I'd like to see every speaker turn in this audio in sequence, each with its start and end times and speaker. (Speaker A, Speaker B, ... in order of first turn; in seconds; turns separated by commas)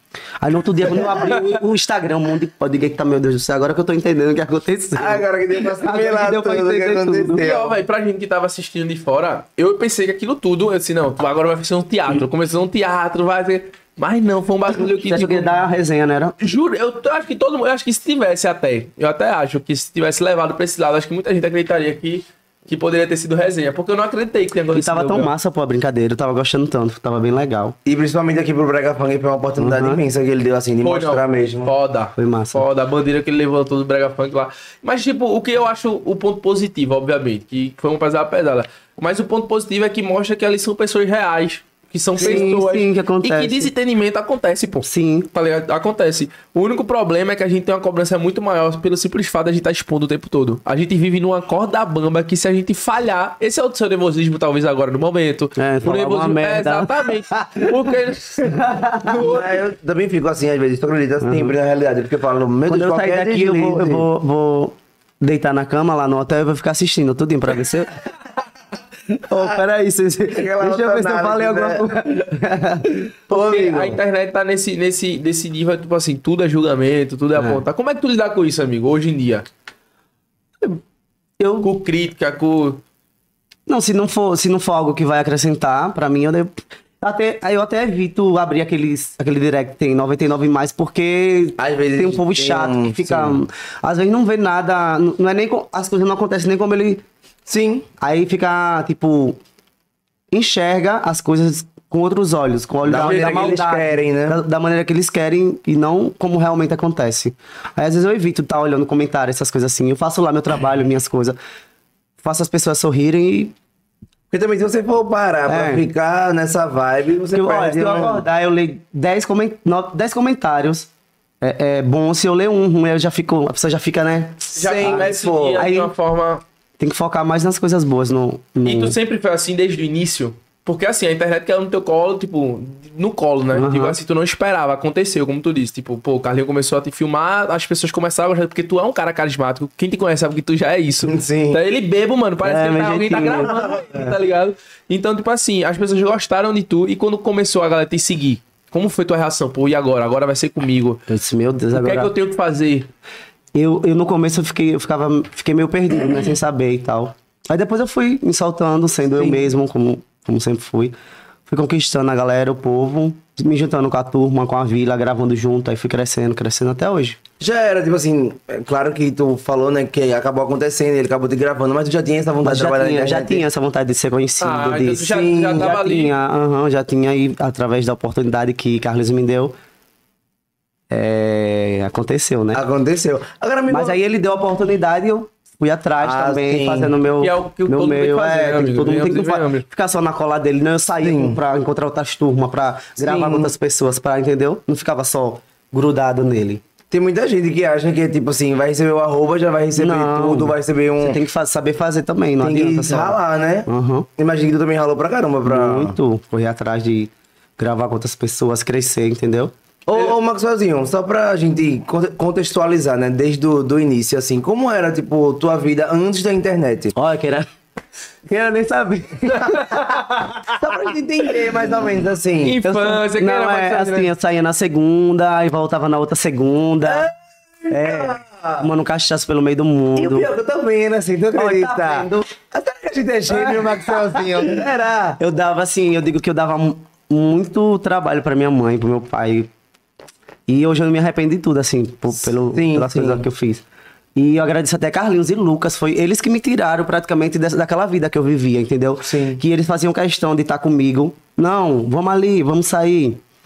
Speaker A: 0.4-7.4, Speaker B: 5.0-7.8, Speaker C: 7.4-15.5, Speaker A: 14.8-16.4, Speaker C: 16.4-25.3, Speaker A: 24.7-27.8, Speaker B: 27.9-31.7, Speaker A: 29.6-30.0, Speaker C: 30.8-59.5, Speaker A: 32.2-32.6, Speaker A: 42.2-43.7, Speaker A: 44.8-45.3, Speaker A: 55.6-57.9, Speaker A: 58.4-59.3, Speaker B: 59.1-64.1, Speaker A: 61.2-61.5, Speaker A: 62.7-68.0, Speaker A: 69.1-73.0, Speaker B: 70.3-72.0, Speaker B: 73.3-74.0, Speaker C: 73.3-79.5, Speaker A: 81.4-81.7, Speaker C: 81.6-82.8, Speaker A: 83.7-97.0, Speaker B: 91.6-93.4, Speaker B: 97.5-97.9, Speaker A: 98.0-99.4, Speaker A: 100.3-111.4, Speaker B: 102.8-104.4, Speaker C: 102.9-103.5, Speaker A: 112.2-113.5, Speaker B: 114.3-118.3, Speaker A: 115.5-115.8, Speaker A: 117.3-120.9, Speaker A: 121.4-125.9, Speaker C: 124.5-126.4, Speaker B: 124.6-125.7, Speaker A: 126.8-129.0, Speaker C: 128.7-151.0, Speaker A: 133.5-134.0, Speaker B: 141.1-141.6, Speaker A: 142.4-143.6, Speaker B: 143.5-144.0, Speaker A: 151.1-152.1, Speaker C: 151.7-152.9, Speaker A: 153.6-160.9, Speaker A: 161.5-167.2, Speaker B: 167.4-173.4, Speaker A: 172.4-179.6, Speaker C: 174.4-176.1, Speaker B: 175.1-175.7, Speaker A: 180.9-182.6, Speaker B: 182.5-184.0, Speaker A: 183.7-196.6, Speaker B: 186.0-186.9, Speaker C: 187.2-189.7, Speaker B: 191.0-191.4, Speaker B: 193.0-193.5, Speaker B: 196.9-201.2, Speaker A: 199.8-204.1, Speaker B: 202.4-206.0, Speaker A: 205.4-209.5, Speaker B: 209.9-216.9, Speaker A: 216.9-217.5, Speaker A: 218.3-220.5, Speaker C: 219.4-220.0, Speaker B: 220.5-222.6, Speaker C: 222.4-224.1, Speaker A: 222.6-227.1, Speaker B: 226.8-227.1, Speaker B: 227.6-228.7, Speaker A: 227.7-230.3, Speaker B: 230.0-235.2, Speaker A: 231.3-232.3, Speaker A: 233.3-234.7, Speaker A: 235.2-239.5, Speaker A: 240.5-243.6, Speaker B: 242.5-243.3, Speaker A: 244.2-253.2, Speaker B: 249.0-249.4